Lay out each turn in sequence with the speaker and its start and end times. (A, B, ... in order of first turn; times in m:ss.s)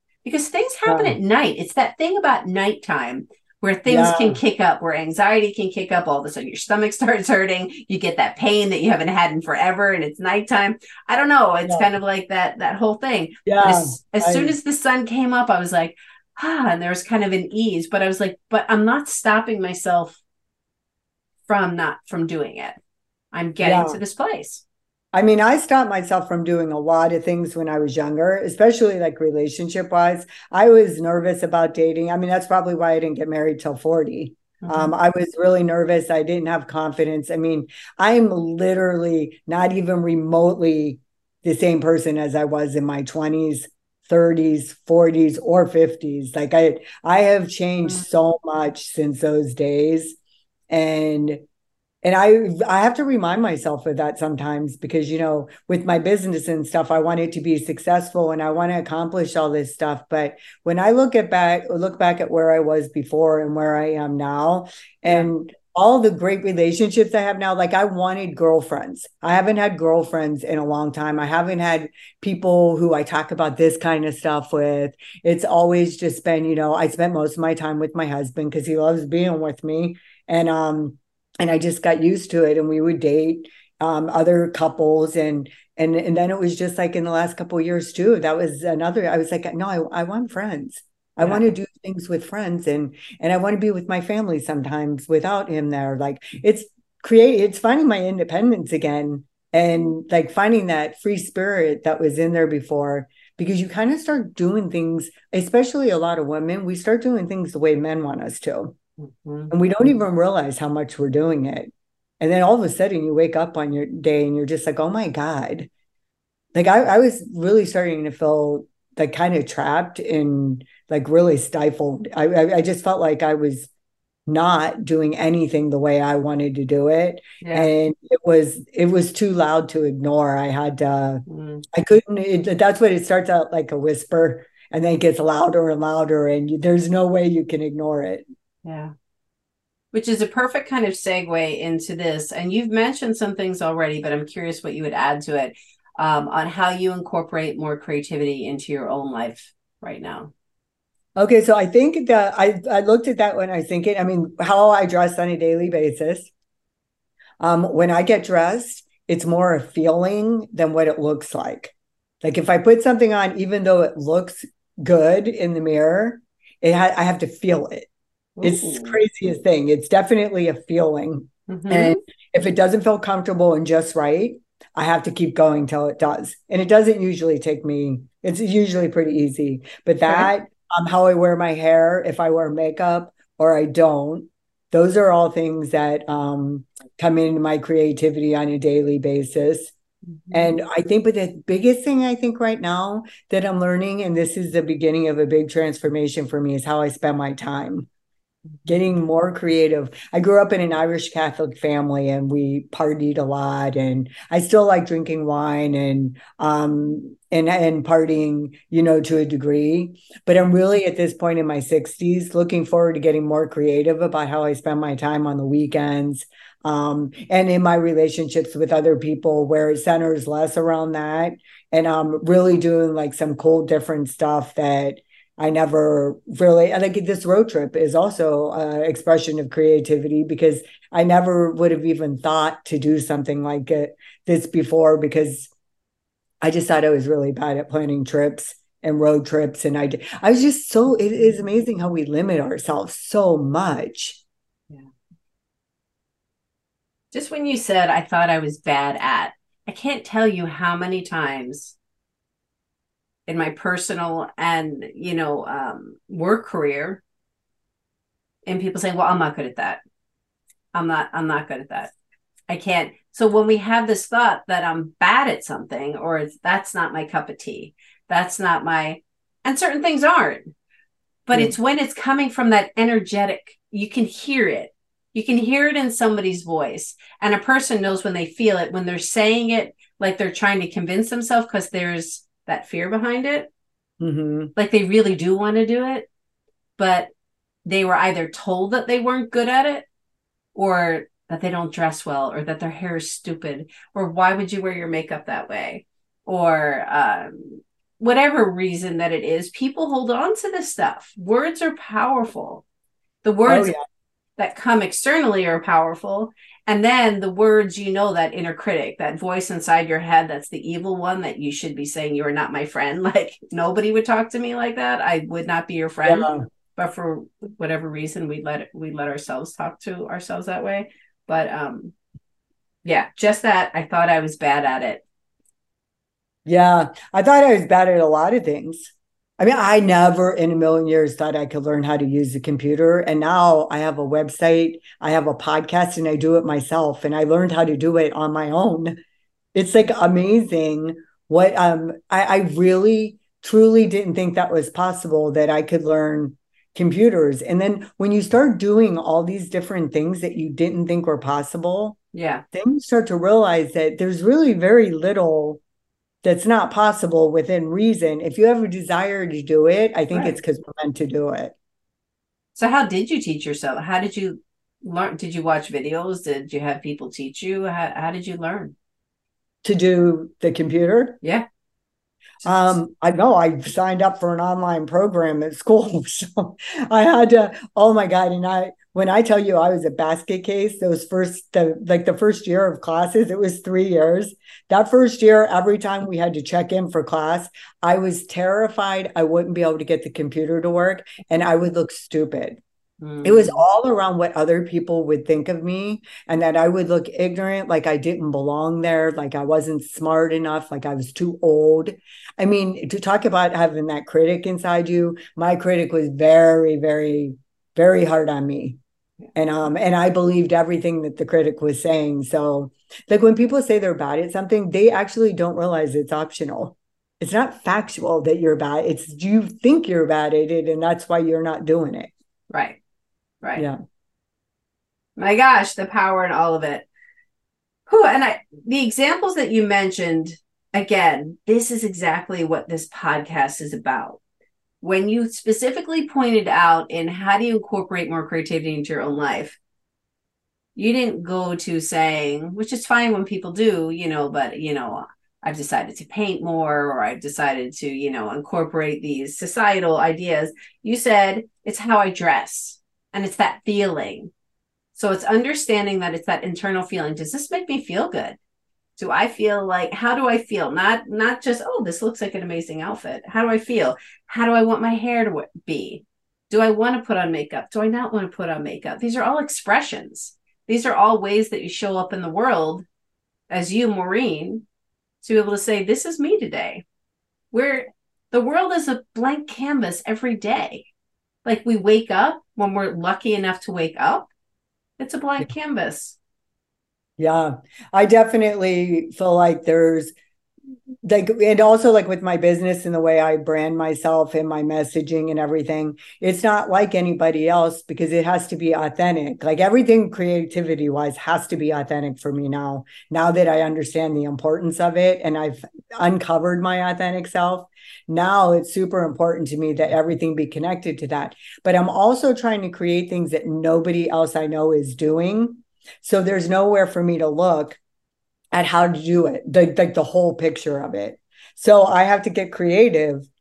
0:00.2-0:20.2 A
0:00.9-0:01.2 B
0:03.9-0:04.4 B
0:13.5-0:14.6 B
0:21.5-0:22.8 A
0:23.3-0:24.6 A
0:23.6-0:24.0 B
0:25.1-0:50.2 B
0:34.6-0:34.9 A
0:50.7-0:51.4 B
0:52.0-1:48.8 B
1:31.2-1:31.5 A
1:49.0-1:49.6 A
1:49.5-1:55.7 B
1:56.5-2:03.7 B
2:04.3-2:18.2 B
2:07.4-2:07.7 A
2:11.3-2:11.6 A
2:18.6-2:18.9 A
2:19.9-2:30.3 A
2:31.2-2:36.3 B
2:37.4-2:47.9 B
2:48.4-2:49.0 A
2:48.4-3:09.7 B
2:51.5-2:52.0 A
3:10.3-3:10.6 A
3:10.3-3:17.9 B
3:18.7-3:55.5 B
3:56.4-4:04.2 B
4:07.1-4:11.8 A
4:13.3-4:17.0 A
4:18.5-4:19.8 A
4:20.7-4:21.9 A
4:22.5-4:30.5 A
4:31.3-4:43.5 A
4:44.0-4:44.5 B
4:44.6-4:46.1 A
4:46.8-4:47.1 A
4:47.6-4:49.9 A
4:50.6-5:02.6 A
5:03.2-5:03.8 A
5:03.5-5:03.8 B
5:04.4-5:21.9 A
5:16.0-5:16.5 B
5:22.8-5:25.0 A
5:26.5-5:39.0 B
5:39.6-5:52.0 B
5:52.1-5:52.4 A
5:52.5-5:55.6 B
5:56.2-6:01.6 B
6:02.6-6:08.8 A
6:09.6-6:11.2 B
6:12.4-6:32.6 B
6:12.4-6:12.8 A
6:33.0-6:33.6 A
6:33.2-6:48.8 B
6:49.4-7:02.1 B
7:02.5-7:02.8 A
7:05.2-7:06.9 A
7:07.9-7:14.2 A
7:14.8-7:19.6 A
7:20.8-7:34.3 A
7:35.0-7:38.4 A
7:39.0-7:52.9 A
7:53.5-7:54.6 A
7:55.2-7:56.8 A
7:57.5-8:00.9 A
8:01.4-8:04.3 A
8:05.0-8:06.2 A
8:07.2-8:10.1 B
8:11.0-8:37.8 B
8:38.5-8:43.3 B